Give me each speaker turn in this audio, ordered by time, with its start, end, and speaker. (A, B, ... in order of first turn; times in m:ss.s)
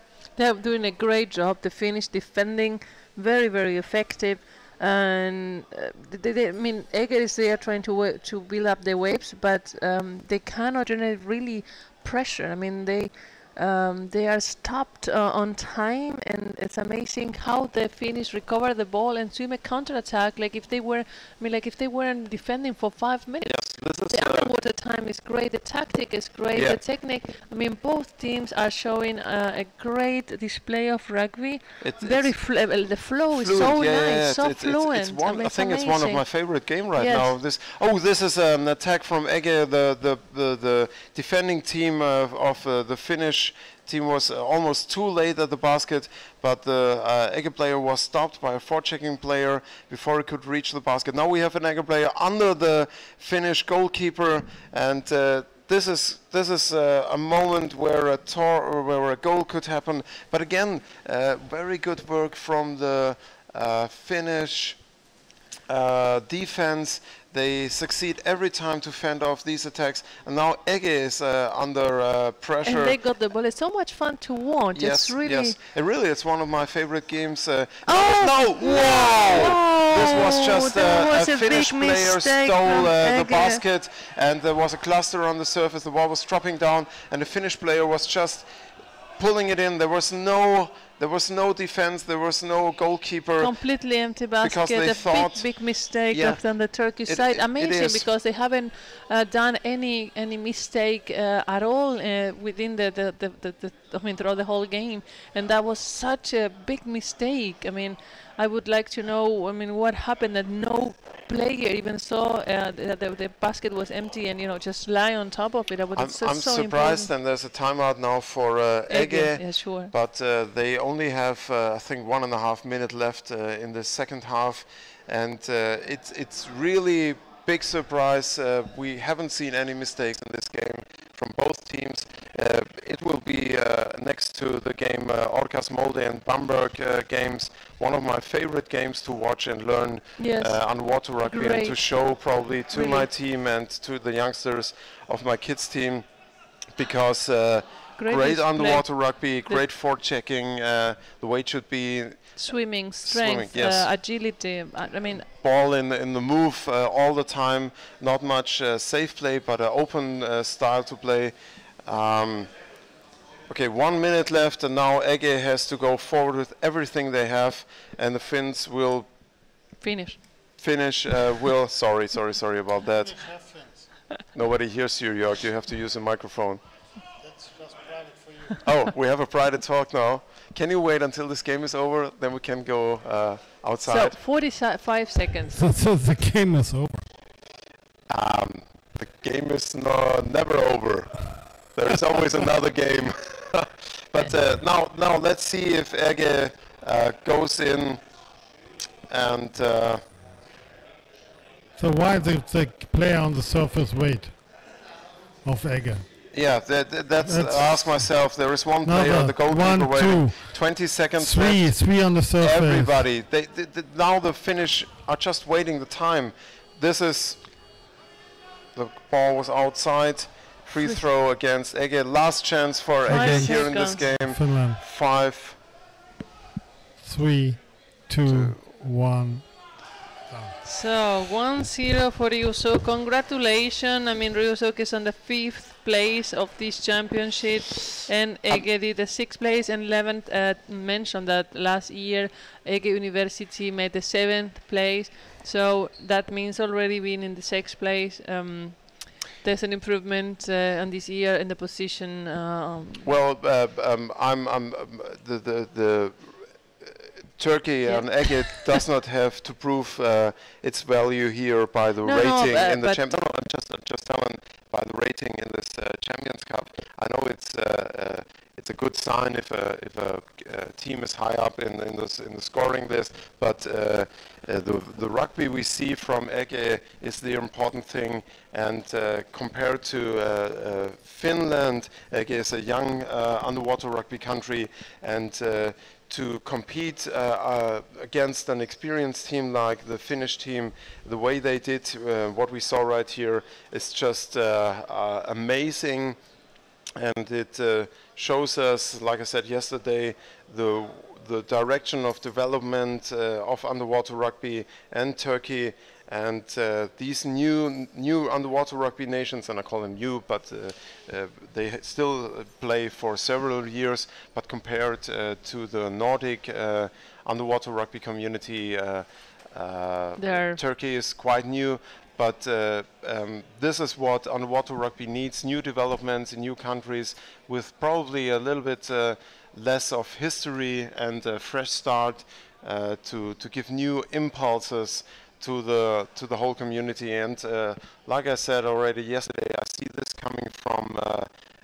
0:00.4-0:36.3 A
0:23.4-0:24.5 B
0:31.8-0:32.3 B
0:33.3-1:04.8 B
0:37.0-0:37.3 A
1:05.7-1:13.0 B
1:12.6-1:15.6 A
1:14.7-1:28.5 B
1:17.9-1:23.6 A
1:29.2-1:33.6 B
1:33.4-1:57.1 A
1:34.4-1:38.1 B
1:56.0-2:26.1 B
1:58.9-1:59.9 A
2:20.2-2:20.6 A
2:21.3-2:21.9 A
2:22.7-2:23.1 A
2:26.8-2:32.5 B
2:28.0-2:29.6 A
2:32.4-2:35.3 A
2:33.0-2:33.9 B
2:35.2-2:42.6 B
2:43.5-2:49.1 B
2:49.8-2:50.3 A
2:50.6-2:53.4 B
2:53.3-2:53.8 C
2:54.3-2:56.6 B
2:57.2-2:58.5 C
2:58.6-3:04.2 B
3:03.9-3:05.6 A
3:05.5-3:07.1 C
3:08.1-3:18.0 B
3:19.1-3:20.0 B
3:21.8-3:24.4 C
3:25.4-3:26.1 C
3:26.3-3:37.5 B
3:27.3-3:28.2 C
3:28.8-3:33.0 C
3:38.8-3:45.6 B
3:43.1-3:44.8 C
3:43.1-3:44.0 A
3:47.0-3:49.6 C
3:48.3-3:48.6 B
3:50.6-4:13.1 A
4:13.0-4:56.2 B
4:17.9-4:18.8 A
4:22.0-4:23.1 A
4:57.0-5:41.3 B
5:20.2-5:20.6 A